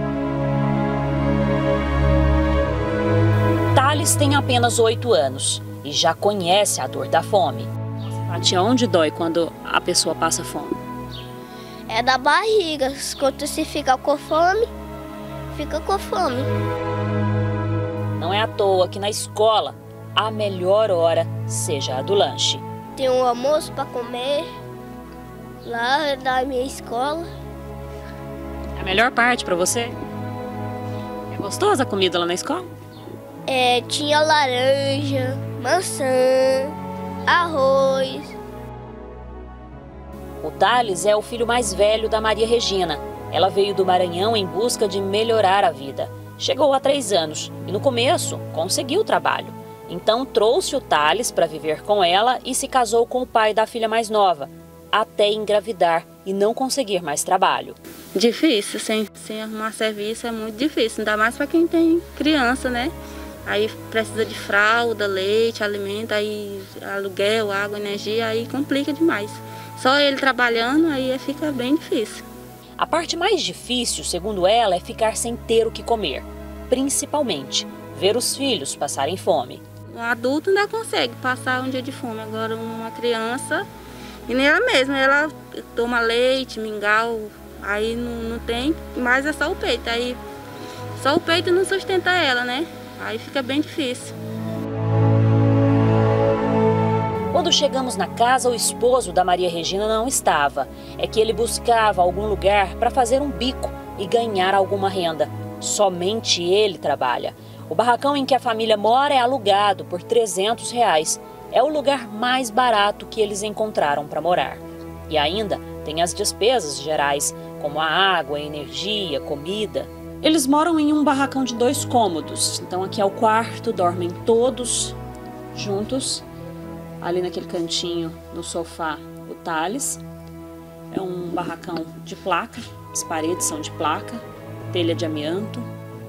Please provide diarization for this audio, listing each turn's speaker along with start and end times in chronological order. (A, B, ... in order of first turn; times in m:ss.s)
0:03.8-0:07.7 A
0:08.3-0:10.8 A
0:11.9-0:14.7 B
0:15.5-0:16.5 B
0:18.2-0:22.6 A
0:23.0-0:24.5 B
0:25.6-0:27.3 B
0:28.8-0:30.0 A
0:31.3-0:32.7 A
0:33.5-0:36.8 B
0:37.3-0:38.4 B
0:40.4-0:57.8 A
0:58.2-1:02.9 C
1:03.5-1:12.2 C
1:12.8-1:19.6 A
1:19.9-1:23.7 C
1:24.3-1:30.2 C
1:31.0-1:34.2 C
1:37.3-2:05.0 A
2:05.5-2:06.2 A
2:07.0-2:10.0 A
2:10.9-2:15.7 A